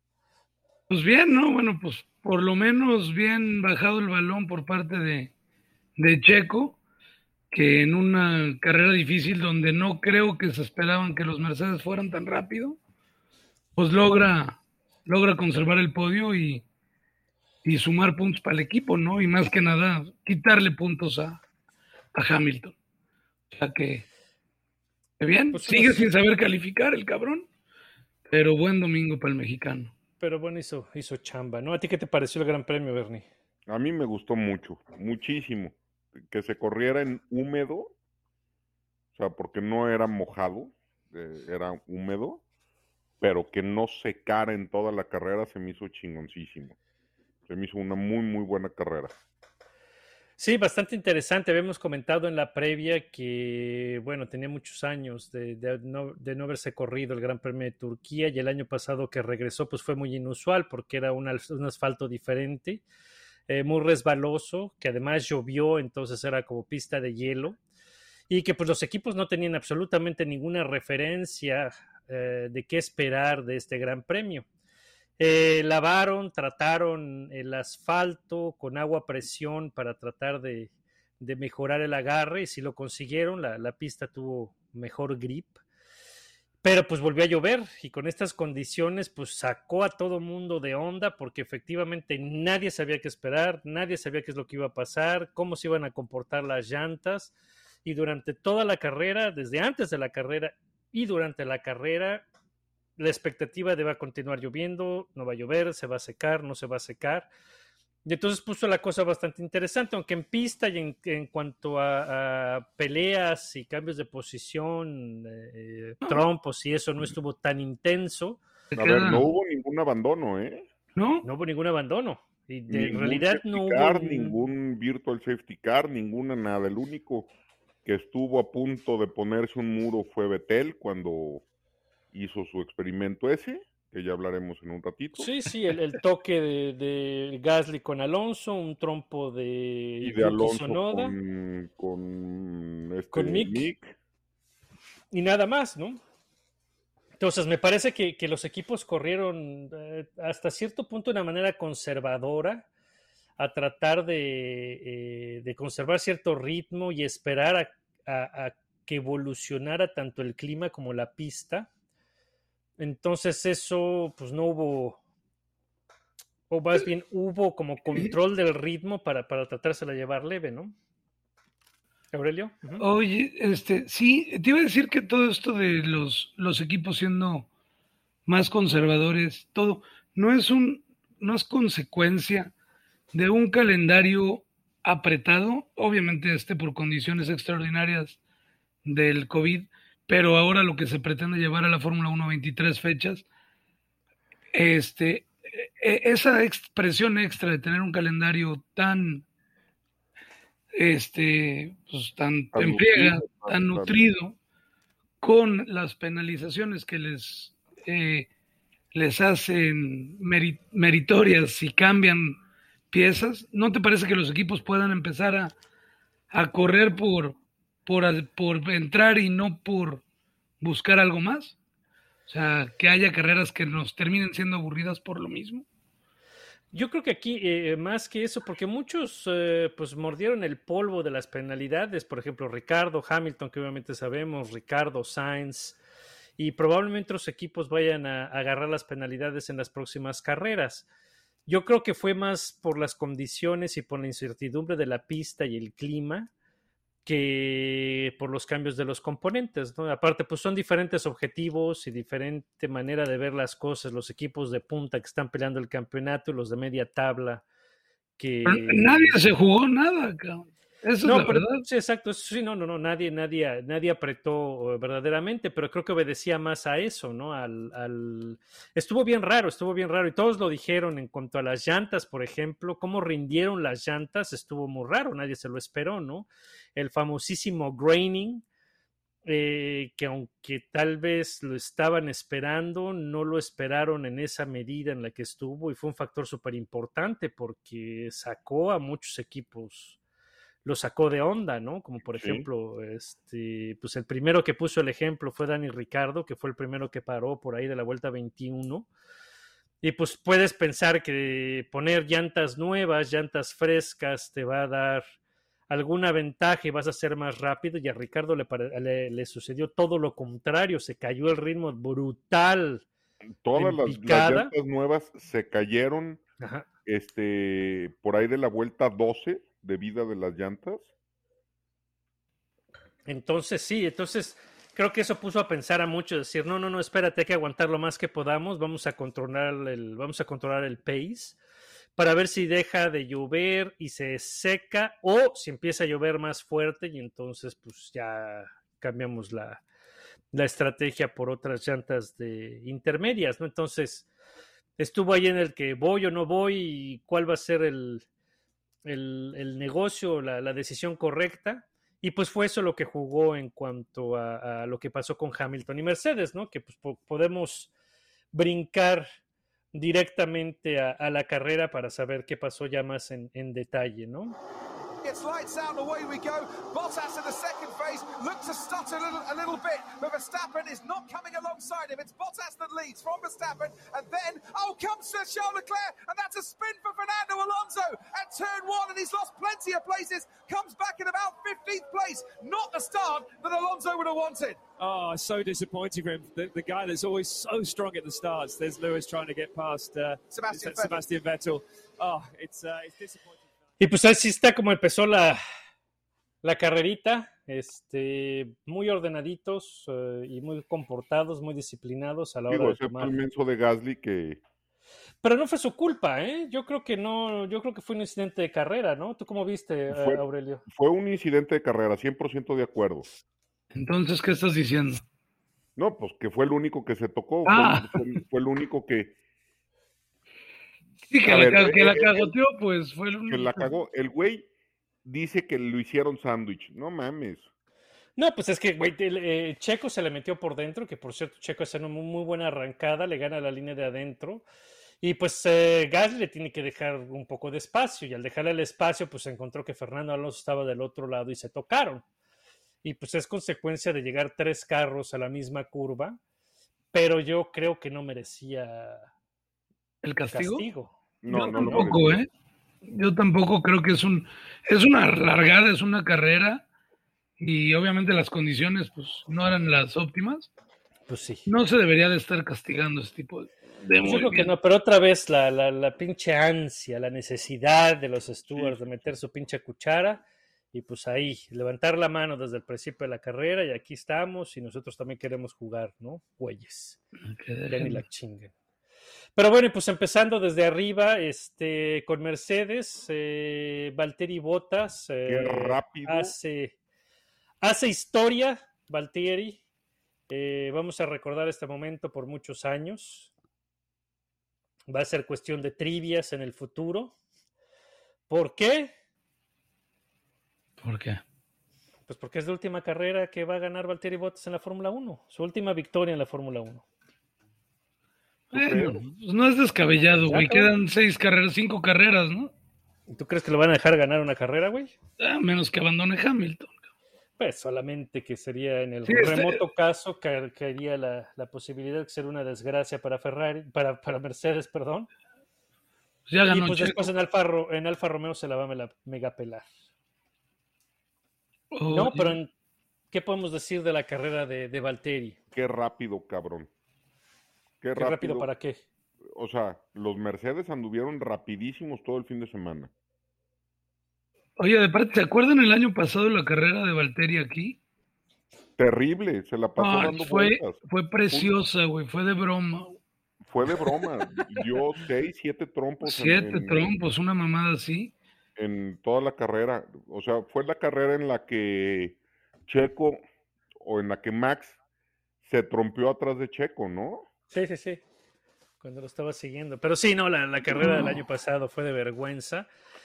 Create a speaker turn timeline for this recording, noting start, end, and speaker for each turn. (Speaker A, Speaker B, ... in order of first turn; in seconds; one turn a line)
Speaker A: 0.9-5.3
Speaker A: 6.0-6.8
Speaker A: 7.5-12.8
Speaker A: 13.8-16.6
Speaker A: 17.6-21.4
Speaker A: 22.1-22.7
Speaker A: 23.5-24.0
Speaker A: 25.2-27.4
Speaker B: 25.5-26.1
Speaker A: 28.3-29.9
Speaker B: 30.2-33.3
Speaker C: 33.7-35.8
Speaker C: 36.3-37.9
Speaker C: 39.1-42.4
Speaker C: 43.2-46.8
Speaker C: 47.5-49.1
Speaker B: 50.4-62.8
Speaker B: 63.5-67.6
Speaker B: 68.3-74.5
Speaker B: 75.2-85.6
Speaker B: 86.6-97.3
Speaker B: 97.8-102.2
Speaker B: 103.0-107.3
Speaker B: 108.0-118.4
Speaker A: 118.7-119.3
Speaker C: 118.8-120.7
Speaker A: 121.0-121.2
Speaker B: 121.2-124.3
Speaker C: 122.7-127.3
Speaker C: 127.8-131.4
Speaker C: 132.1-135.3
Speaker B: 135.2-141.1
Speaker C: 140.0-143.9
Speaker B: 143.1-143.7
Speaker B: 145.1-146.0
Speaker B: 147.2-152.7
Speaker B: 153.4-161.7
Speaker B: 162.8-165.0
Speaker B: 166.5-170.7
Speaker B: 172.1-172.8
Speaker A: 172.8-177.5
Speaker A: 178.2-182.5
Speaker A: 183.1-188.2
Speaker A: 188.8-193.2
Speaker A: 194.5-199.2
Speaker A: 200.7-204.3
Speaker C: 202.5-204.0
Speaker A: 205.2-208.3
Speaker A: 208.9-212.4
Speaker A: 212.9-215.5
Speaker A: 216.3-220.0
Speaker A: 220.6-221.6
Speaker A: 222.3-225.6
Speaker B: 226.7-235.8
Speaker B: 236.4-240.9
Speaker B: 241.5-246.3
Speaker B: 247.0-257.4
Speaker B: 258.2-259.2
Speaker A: 258.4-261.6
Speaker B: 261.0-278.4
Speaker B: 279.2-290.0
Speaker B: 290.6-298.9
Speaker C: 292.1-292.5
Speaker B: 299.8-305.0
Speaker B: 305.7-312.8
Speaker C: 313.4-316.2
Speaker B: 313.5-314.5
Speaker B: 316.4-316.6
Speaker C: 316.9-320.9
Speaker B: 323.1-331.4
Speaker B: 332.0-339.6
Speaker B: 340.3-344.1
Speaker B: 344.8-348.0
Speaker B: 348.8-357.7
Speaker B: 358.3-359.1
Speaker B: 359.7-364.4
Speaker D: 365.0-384.6
Speaker E: 384.8-393.5
Speaker D: 390.3-391.0
Speaker B: 393.8-395.4
Speaker B: 396.4-403.1
Speaker C: 402.5-404.4
Speaker B: 405.2-410.6
Speaker C: 409.9-413.1
Speaker A: 413.7-415.0
Speaker C: 415.8-419.1
Speaker A: 417.4-418.2
Speaker A: 421.1-423.7
Speaker C: 421.2-422.3
Speaker C: 423.3-424.5
Speaker C: 425.0-427.5
Speaker B: 428.2-434.4
Speaker B: 435.0-442.0
Speaker B: 442.8-446.2
Speaker B: 446.9-449.1
Speaker A: 450.0-450.6
Speaker B: 450.3-450.9
Speaker C: 451.2-452.2
Speaker A: 451.3-452.3
Speaker A: 452.9-456.6
Speaker A: 457.4-460.5
Speaker B: 461.1-461.4
Speaker A: 461.4-464.5
Speaker B: 464.0-477.0
Speaker C: 468.5-468.8
Speaker A: 477.3-478.0
Speaker B: 477.7-478.5
Speaker B: 479.4-486.7
Speaker C: 485.2-486.3
Speaker B: 487.6-489.6
Speaker B: 490.3-493.3
Speaker B: 494.9-497.1
Speaker B: 498.3-498.9
Speaker A: 500.8-501.2
Speaker B: 502.1-506.8
Speaker C: 508.5-508.9
Speaker A: 508.5-512.5
Speaker B: 510.2-510.7
Speaker B: 513.1-514.9
Speaker A: 515.2-516.7
Speaker B: 517.4-525.1
Speaker A: 519.0-519.6
Speaker A: 526.3-527.1
Speaker B: 526.5-529.7
Speaker A: 531.7-532.4
Speaker B: 531.9-532.5
Speaker B: 533.1-535.4
Speaker C: 535.5-536.7
Speaker C: 537.8-538.5
Speaker B: 538.0-538.8
Speaker C: 539.3-542.9
Speaker A: 544.6-547.8
Speaker C: 548.8-551.5
Speaker A: 549.8-553.0
Speaker C: 553.5-556.9
Speaker A: 556.0-558.1
Speaker C: 558.6-563.2
Speaker C: 563.8-564.8
Speaker C: 565.4-567.2
Speaker B: 567.5-568.0
Speaker B: 568.8-572.7
Speaker A: 570.8-571.2